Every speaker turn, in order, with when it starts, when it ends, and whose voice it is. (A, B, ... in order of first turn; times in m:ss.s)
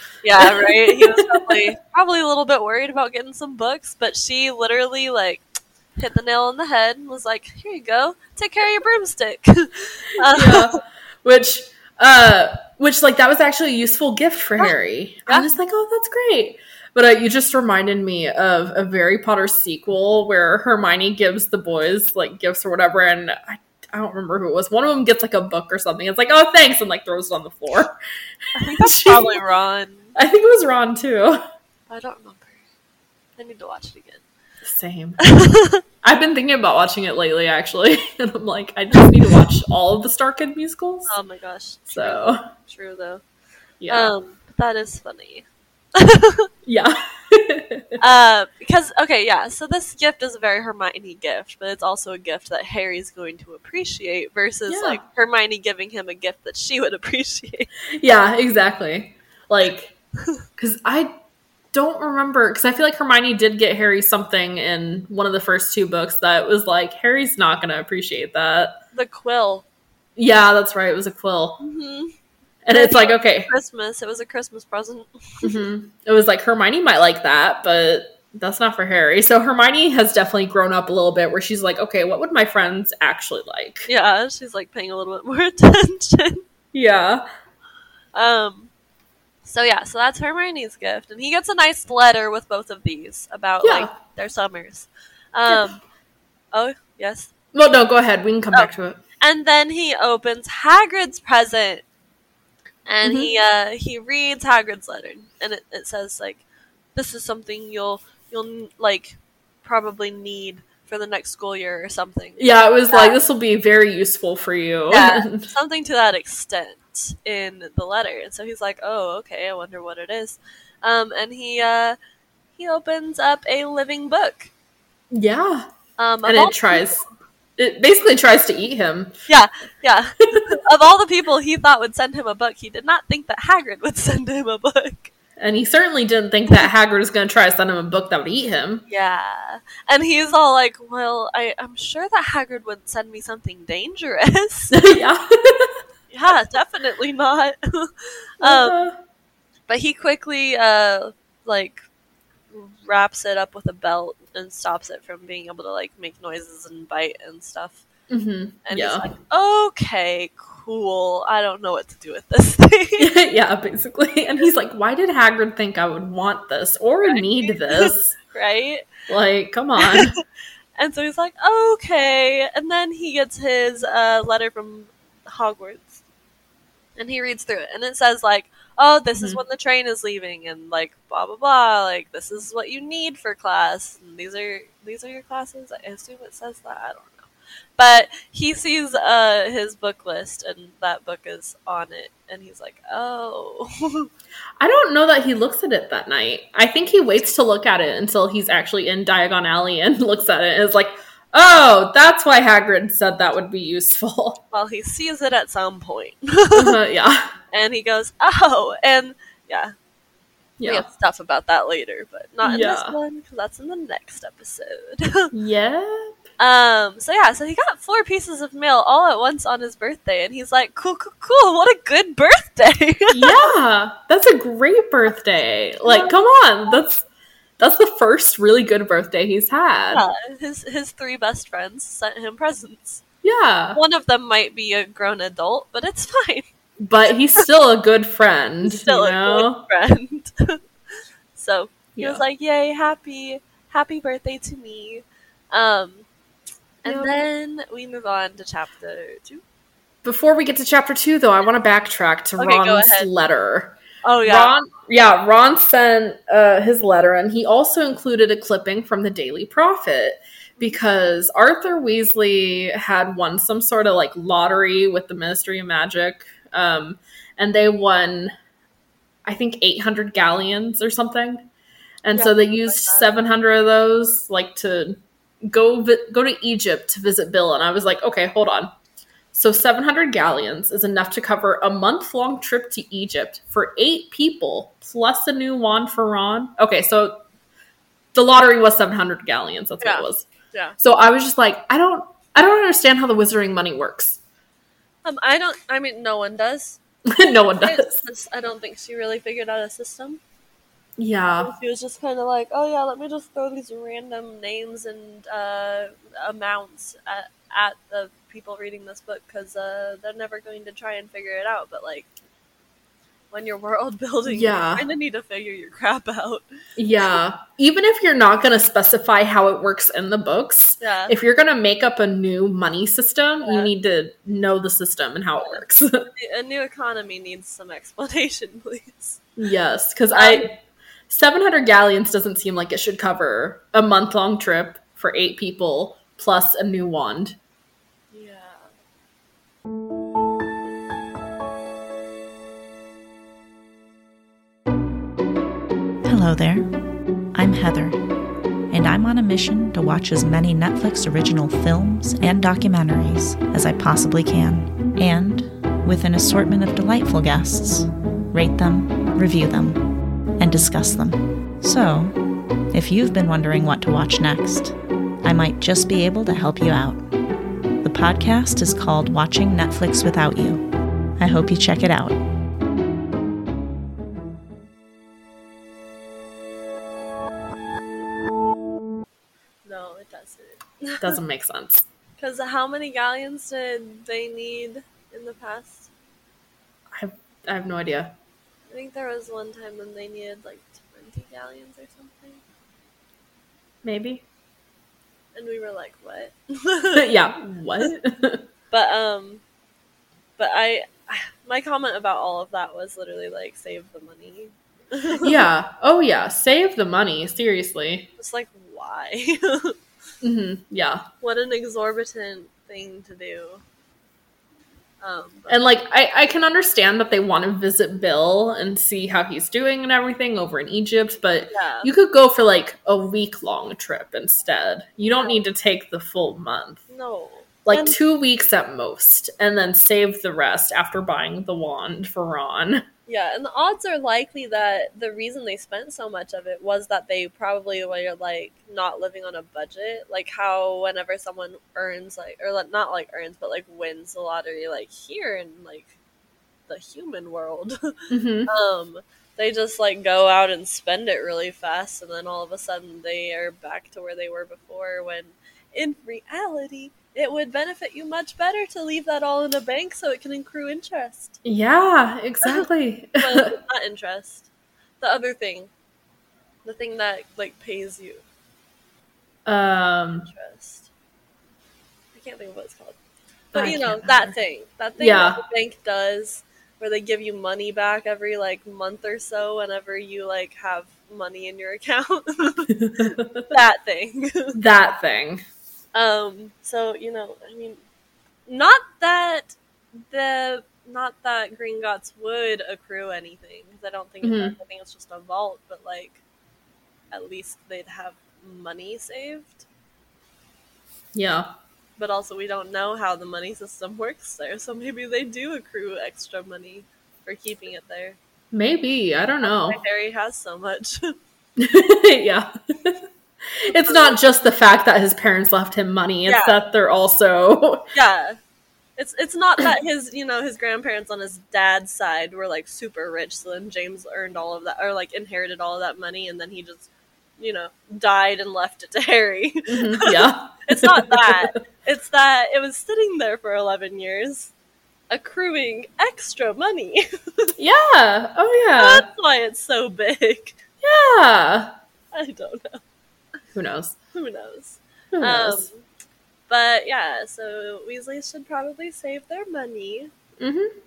0:00.2-0:05.4 A
0:00.4-0:01.7 B
0:06.0-0:10.8 A
0:10.2-0:28.0 B
0:28.5-0:30.1 A
0:28.7-0:29.4 B
0:30.1-0:31.4 B
0:31.9-0:32.6 A
0:33.4-0:34.2 A
0:34.6-0:35.2 B
0:35.2-0:35.8 A
0:36.0-0:41.2 B
0:41.1-0:43.2 A
0:41.9-0:42.4 B
0:43.8-0:44.1 B
0:43.9-0:46.5 A
0:46.6-0:48.0 B
0:48.0-0:57.7 A
0:54.7-0:55.0 B
0:58.0-0:59.9 B
1:00.6-1:01.1 B
1:01.7-1:08.8 B
1:08.9-1:09.6 A
1:10.2-1:11.6 B
1:11.6-1:12.1 A
1:12.6-1:13.5 B
1:12.7-1:15.6 A
1:15.4-1:23.9 B
1:23.9-1:26.4 A
1:26.7-1:27.2 B
1:28.1-1:28.7 A
1:29.4-1:35.8 A
1:33.6-1:33.9 B
1:36.5-1:37.3 A
1:37.5-1:39.0 B
1:38.5-1:41.8 A
1:42.9-1:46.4 A
1:43.0-1:43.3 B
1:46.9-1:53.2 A
1:52.4-1:55.5 B
1:54.9-2:02.0 A
2:02.6-2:04.5 A
2:05.1-2:05.7 B
2:06.0-2:07.1 A
2:06.2-2:07.0 B
2:07.6-2:09.1 B
2:09.3-2:15.1 A
2:15.4-2:18.8 B
2:18.9-2:24.8 A
2:24.7-2:25.8 B
2:26.1-2:28.8 A
2:28.4-2:29.0 B
2:29.7-2:31.8 A
2:32.5-2:37.8 A
2:38.1-2:39.1 B
2:38.6-2:43.1 A
2:43.0-2:48.1 B
2:47.0-2:48.9 A
2:49.1-2:50.1 B
2:49.8-2:50.0 A
2:50.8-2:56.0 A
2:57.0-3:14.1 A
2:59.2-2:59.4 B
3:14.6-3:24.4 B
3:24.5-3:26.8 A
3:26.5-3:27.3 B
3:27.5-3:29.7 A
3:30.6-3:30.9 B
3:30.6-3:35.3 A
3:32.4-3:33.0 B
3:35.3-3:36.1 B
3:36.4-3:43.5 A
3:43.1-3:47.0 B
3:45.8-3:46.2 A
3:47.6-3:50.0 B
3:49.9-3:53.0 A
3:53.2-3:53.8 B
3:53.7-3:56.5 A
3:56.8-3:59.6 B
3:58.6-4:00.6 A
4:01.4-4:06.1 A
4:02.0-4:02.2 B
4:06.8-4:09.4 A
4:06.8-4:07.2 B
4:10.0-4:28.3 B
4:12.4-4:13.1 A
4:14.0-4:14.5 A
4:20.6-4:20.8 A
4:29.2-4:31.5 B
4:32.0-4:38.7 B
4:32.1-4:33.1 A
4:39.3-4:47.2 B
4:48.1-4:50.2 B
4:49.8-4:50.8 A
4:50.8-4:54.2 B
4:55.0-4:56.8 A
4:57.1-4:58.0 B
4:57.6-5:00.2 A
5:01.0-5:01.5 B
5:01.4-5:12.1 A
5:13.3-5:16.4 A
5:14.3-5:14.8 B
5:16.8-5:26.1 B
5:20.8-5:21.1 A
5:23.4-5:23.7 A
5:26.1-5:29.2 A
5:29.4-5:30.5 B
5:30.1-5:30.5 A
5:31.1-5:37.4 B
5:38.1-5:38.7 A
5:46.0-5:46.7 C
5:47.3-5:48.0 C
5:48.7-5:59.8 C
6:00.4-6:02.2 C
6:02.7-6:07.0 C
6:07.8-6:10.6 C
6:11.2-6:12.2 C
6:19.6-6:21.2 A
6:21.0-6:21.8 B
6:22.2-6:25.9 A
6:26.9-6:28.1 B
6:28.7-6:32.4 A
6:33.8-6:34.2 B
6:35.3-6:37.2 A
6:36.9-6:38.4 B
6:38.7-6:39.4 A
6:40.4-6:45.4 A
6:45.2-6:48.1 B
6:48.2-6:49.8 A
6:50.2-6:51.0 B
6:51.2-6:53.6 A
6:55.0-6:55.6 A
6:55.5-7:06.8 B
7:01.5-7:01.9 A
7:05.1-7:05.4 A
7:06.9-7:08.0 A
7:07.6-7:12.8 B
7:13.1-7:25.9 A
7:26.7-7:27.9 A
7:28.1-7:28.5 B
7:28.5-7:41.4 A
7:41.4-7:43.5 B
7:43.2-7:44.5 A
7:45.0-7:45.7 A
7:46.6-7:48.2 A
7:49.4-7:50.3 B
7:50.3-7:50.9 A
7:52.1-7:53.0 A
7:53.5-8:02.7 A
7:53.5-7:54.3 B
7:55.0-7:55.4 B
8:02.7-8:03.4 B
8:03.5-8:04.5 A
8:04.5-8:05.4 B
8:05.9-8:07.8 A
8:08.5-8:09.5 A
8:10.1-8:16.2 A
8:14.2-8:14.6 B
8:17.1-8:19.6 A
8:21.1-8:21.5 B
8:22.0-8:28.2 A
8:28.5-8:29.8 B
8:29.4-8:31.1 A
8:31.6-8:33.0 B
8:33.6-8:37.8 B
8:33.8-8:34.2 A
8:36.2-8:36.6 A
8:37.9-8:38.4 A
8:39.0-8:46.9 A
8:47.4-8:54.5 A
8:49.7-8:51.5 B
8:55.1-8:57.5 A
8:57.6-8:59.0 B
8:58.7-9:00.6 A
9:00.8-9:01.7 B
9:02.1-9:02.8 A
9:03.5-9:04.0 B
9:04.1-9:05.8 A
9:05.1-9:05.7 B
9:06.5-9:10.1 A
9:10.4-9:10.7 B